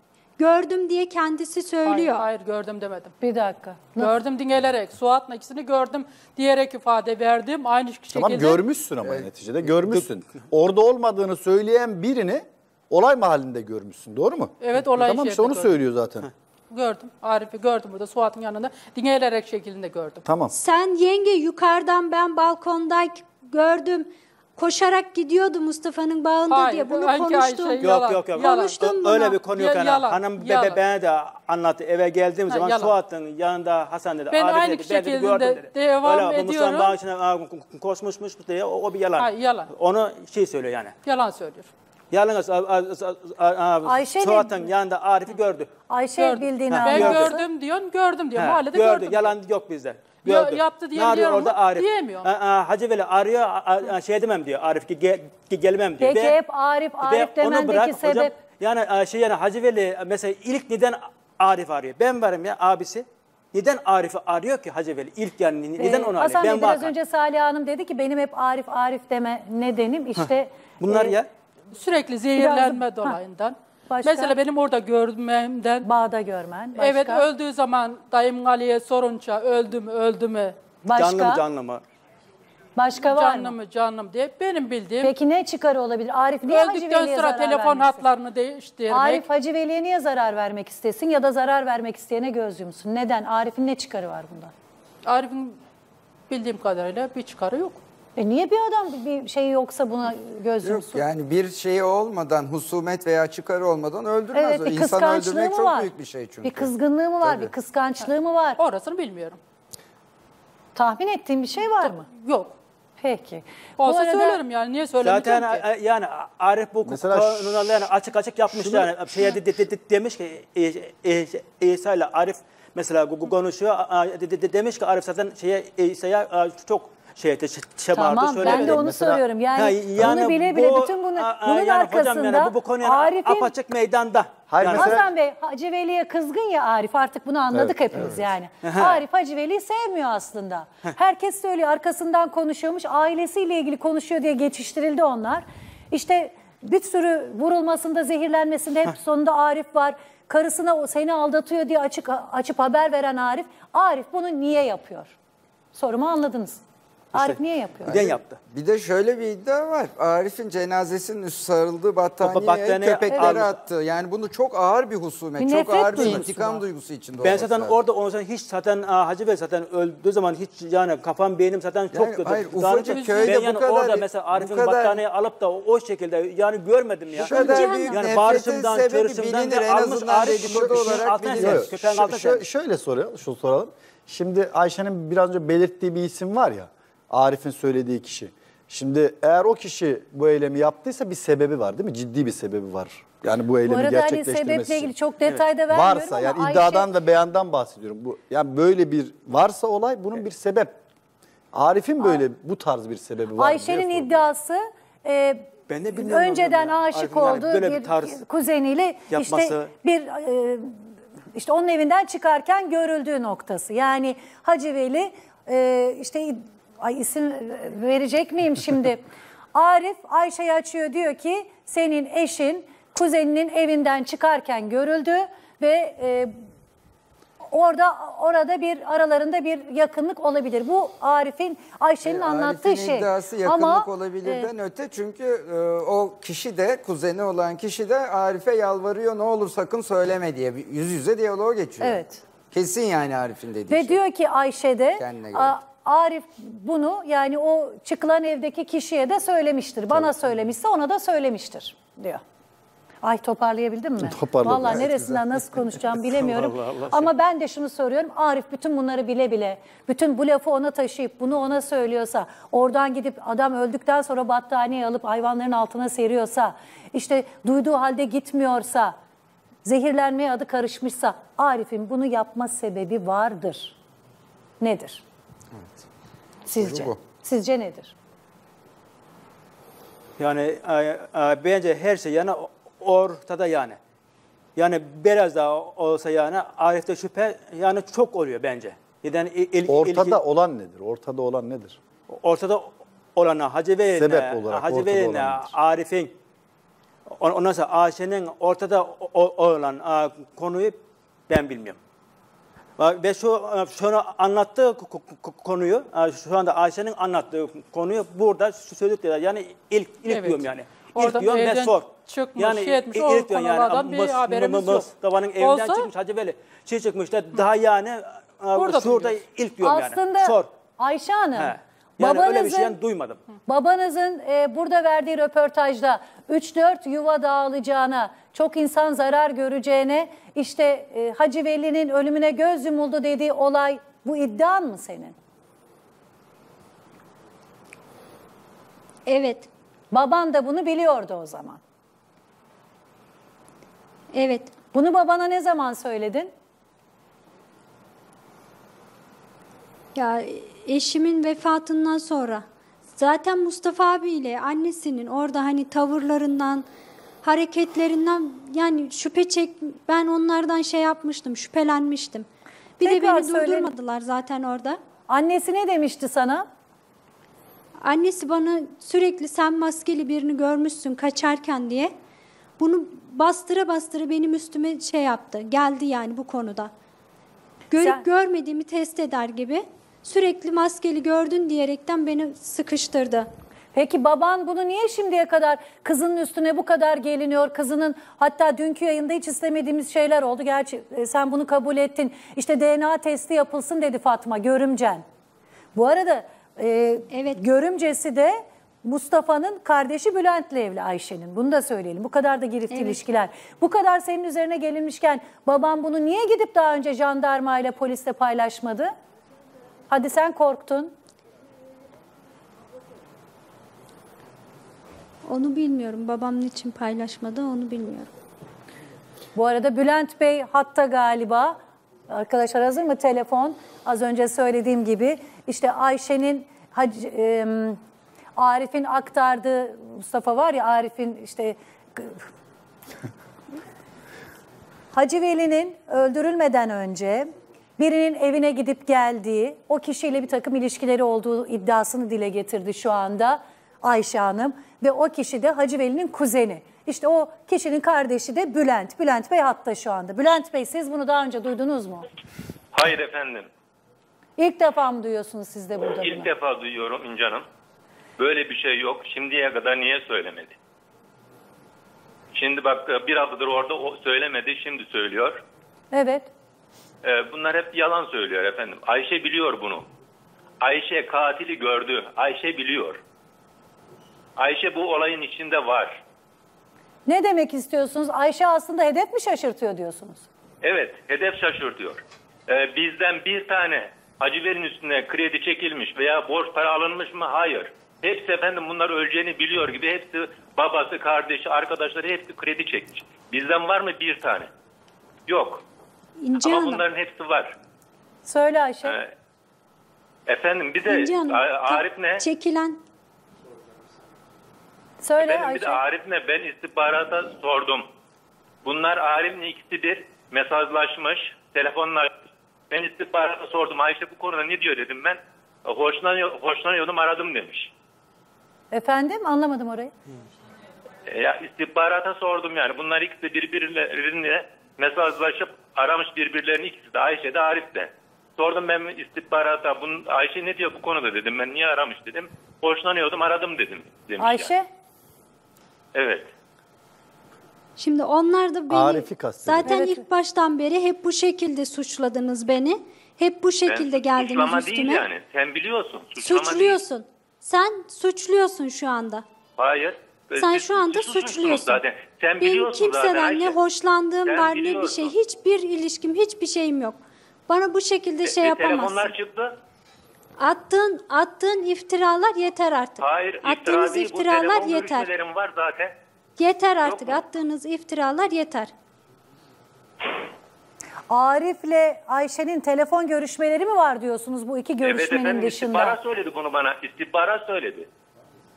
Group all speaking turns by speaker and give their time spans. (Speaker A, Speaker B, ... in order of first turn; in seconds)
Speaker A: 0.4-2.3, 20.5-27.9, 28.8-29.4, 177.2-178.1, 339.1-339.5, 344.1-344.5, 349.9-356.7, 357.2-362.3, 362.8-364.8, 367.8-371.9, 372.6-376.7, 377.7-383.3, 397.1-397.4, 402.7-403.0, 415.3-418.1, 496.2-496.8, 500.9-502.8, 537.8-545.1, 546.2-549.2, 550.4-551.8, 552.4-557.0, 557.5-559.1, 560.4-565.1, 566.4-568.7
Speaker B: 1.9-3.1, 4.0-8.6, 14.6-15.8, 16.7-20.3, 26.5-30.8, 32.5-33.0, 34.3-37.0, 39.2-39.7, 41.0-41.7, 46.1-49.4, 50.2-52.3, 71.7-75.9, 76.8-80.6, 83.0-85.1, 86.5-89.2, 95.0-95.6, 96.3-97.8, 108.6-109.4, 111.8-112.6, 113.8-115.7, 172.9-173.4, 310.1-315.9, 318.6-319.2
Speaker C: 3.2-4.2, 43.9-44.7, 45.9-47.5, 56.0-58.4, 65.8-71.2, 72.4-73.2, 73.9-74.4, 75.8-77.2, 80.8-81.4, 82.8-83.6, 85.0-88.0, 88.9-94.5, 98.2-101.0, 104.3-105.9, 106.4-108.6, 110.8-112.1, 113.0-114.4, 127.9-133.5, 134.7-155.2, 155.7-156.6, 157.1-157.9, 165.4-166.6, 193.7-196.9, 203.4-210.7, 211.3-219.0, 219.5-226.3, 227.5-234.5, 241.8-242.2, 243.7-252.2, 253.0-269.0, 269.6-273.8, 274.6-275.0, 276.5-277.9, 319.6-322.8, 323.5-335.1, 339.9-341.6, 344.7-346.3, 362.8-363.7, 365.1-366.5, 383.7-395.0, 395.8-408.9, 409.9-410.9, 419.4-427.8, 428.4-432.2, 434.9-452.1, 454.4-456.3, 465.9-466.3, 477.1-480.3, 498.2-499.0, 505.0-505.8, 518.7-519.9, 534.2-534.7, 539.7-540.0, 571.1-576.0
Speaker D: 8.1-16.3, 20.2-20.5, 116.9-117.9, 118.5-119.1, 128.4-129.2, 134.5-135.1, 137.5-138.3, 180.4-194.9, 195.5-200.8, 201.5-204.2, 254.0-255.1, 289.7-291.8, 293.9-295.6, 538.7-539.8
Speaker E: 9.0-9.3, 100.6-106.7, 107.2-107.5, 157.9-167.8, 171.9-175.0, 177.1-182.1, 232.1-244.0, 245.0-245.6, 254.6-255.2, 276.6-277.0
Speaker F: 27.8-41.0, 42.1-45.7, 46.7-47.4, 48.4-56.4, 57.0-66.9, 70.8-71.3, 80.9-81.8, 115.0-135.0, 138.6-139.0, 157.2-158.4, 162.2-163.6, 167.2-182.4, 205.7-208.2, 209.1-209.7, 280.2-283.8, 284.6-290.2, 292.1-296.1, 297.1-301.8, 302.8-320.5, 321.4-323.2
Speaker G: 452.7-453.5, 456.0-457.5, 458.2-460.6, 462.3-465.4, 467.0-469.9, 470.6-473.0, 474.4-476.0, 480.6-494.5, 495.3-495.6, 496.4-497.6, 498.9-499.1, 500.3-502.2, 505.2-507.9, 508.6-512.2, 512.7-517.7, 521.1-534.5, 535.9-536.3, 543.7-546.8, 549.6-553.6, 554.2-555.1, 558.2-559.6, 563.0-566.0, 566.8-567.2, 574.8-577.9